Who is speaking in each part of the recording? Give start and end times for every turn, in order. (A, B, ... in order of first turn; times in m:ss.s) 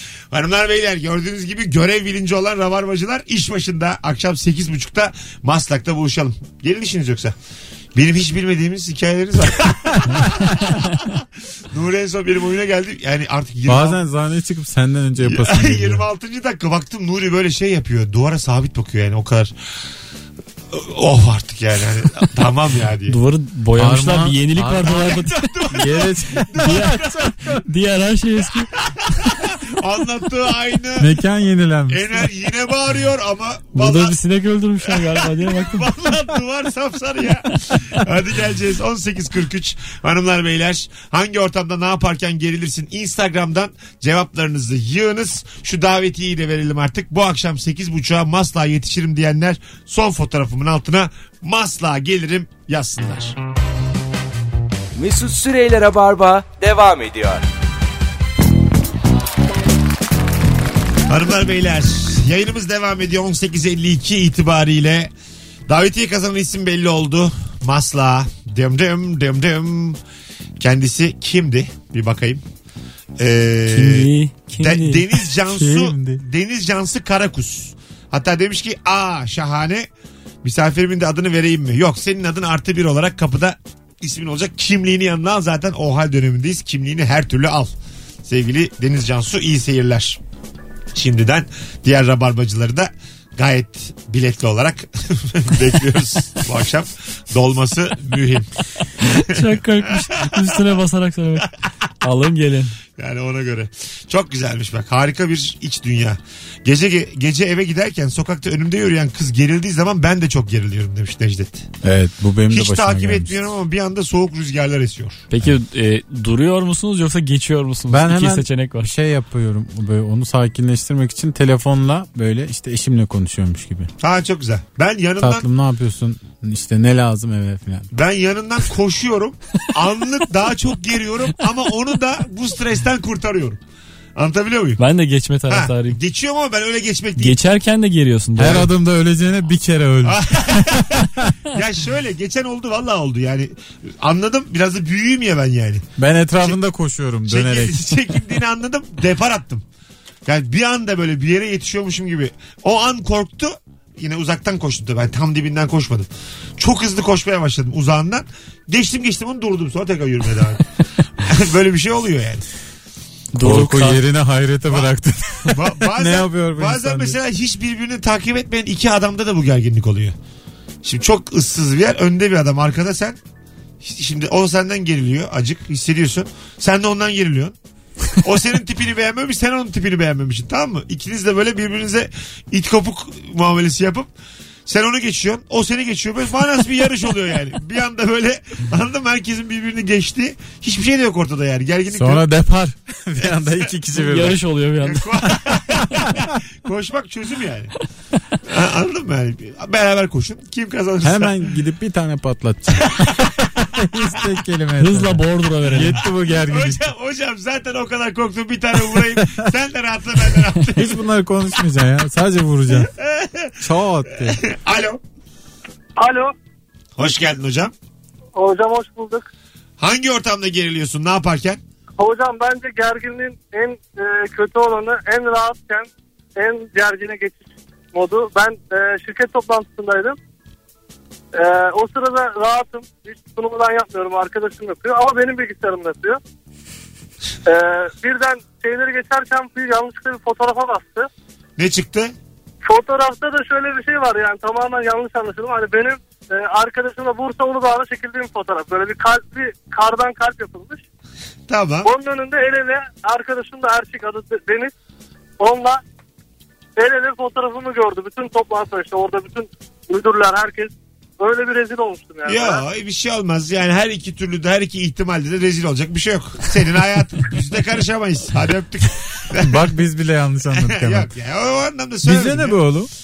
0:00.3-0:07.4 A
0:08.0-0:14.0 A
0:10.2-0:11.0 B
0:13.7-0:16.1 C
0:15.2-0:19.5 A
0:20.7-0:23.2 A
0:23.1-0:25.5 B
0:23.8-0:27.6 C
0:24.9-0:27.2 A
0:26.6-0:27.0 B
0:27.6-0:28.7 B
0:28.9-0:31.1 A
0:31.0-0:32.3 C
0:31.9-0:34.2 A
0:33.8-0:35.9 B
0:34.8-0:53.4 A
0:55.0-0:57.4 D
1:01.1-1:05.1 A
1:05.7-1:10.0 A
1:10.6-1:12.4 A
1:13.2-1:19.9 A
1:13.7-1:15.1 B
1:15.5-1:16.2 C
1:20.4-1:27.7 A
1:28.3-1:30.2 A
1:30.9-1:38.5 A
1:39.0-1:41.5 B
1:39.3-1:40.6 A
1:42.0-1:42.7 B
1:43.0-1:51.7 A
1:51.8-1:53.5 C
1:52.5-1:55.3 A
1:55.3-1:58.9 B
1:57.9-2:03.9 C
2:04.0-2:05.5 A
2:05.2-2:07.9 C
2:07.9-2:13.6 A
2:14.2-2:14.8 A
2:14.8-2:16.0 B
2:15.5-2:17.4 A
2:17.2-2:18.7 B
2:18.4-2:21.3 C
2:20.0-2:25.9 A
2:26.0-2:27.8 C
2:27.3-2:29.6 A
2:30.3-2:40.6 A
2:41.2-2:42.5 A
2:43.3-2:44.0 B
2:43.4-2:47.2 C
2:45.5-2:50.2 A
2:50.8-2:53.2 A
2:53.8-2:57.6 A
2:58.2-3:04.1 A
3:04.7-3:12.3 A
3:11.9-3:14.4 C
3:13.2-3:13.6 A
3:14.0-3:15.1 B
3:14.8-3:17.7 A
3:18.4-3:21.4 A
3:21.0-3:26.9 C
3:22.9-3:23.3 A
3:24.8-3:26.0 B
3:26.0-3:31.0 A
3:29.2-3:29.4 C
3:30.7-3:32.9 C
3:32.9-3:33.6 A
3:33.6-3:34.4 C
3:34.2-3:35.0 A
3:36.0-3:36.3 E
3:37.0-3:37.7 A
3:38.4-3:39.2 E
3:39.8-3:41.6 A
3:42.0-3:50.2 E
3:51.3-3:56.2 E
3:57.5-4:01.1 E
4:01.6-4:02.1 A
4:02.6-4:10.8 E
4:11.5-4:11.9 A
4:11.8-4:14.7 E
4:15.4-4:15.8 E
4:16.8-4:22.6 E
4:22.2-4:29.7 A
4:29.4-4:31.1 C
4:30.5-4:32.6 A
4:32.0-4:32.9 C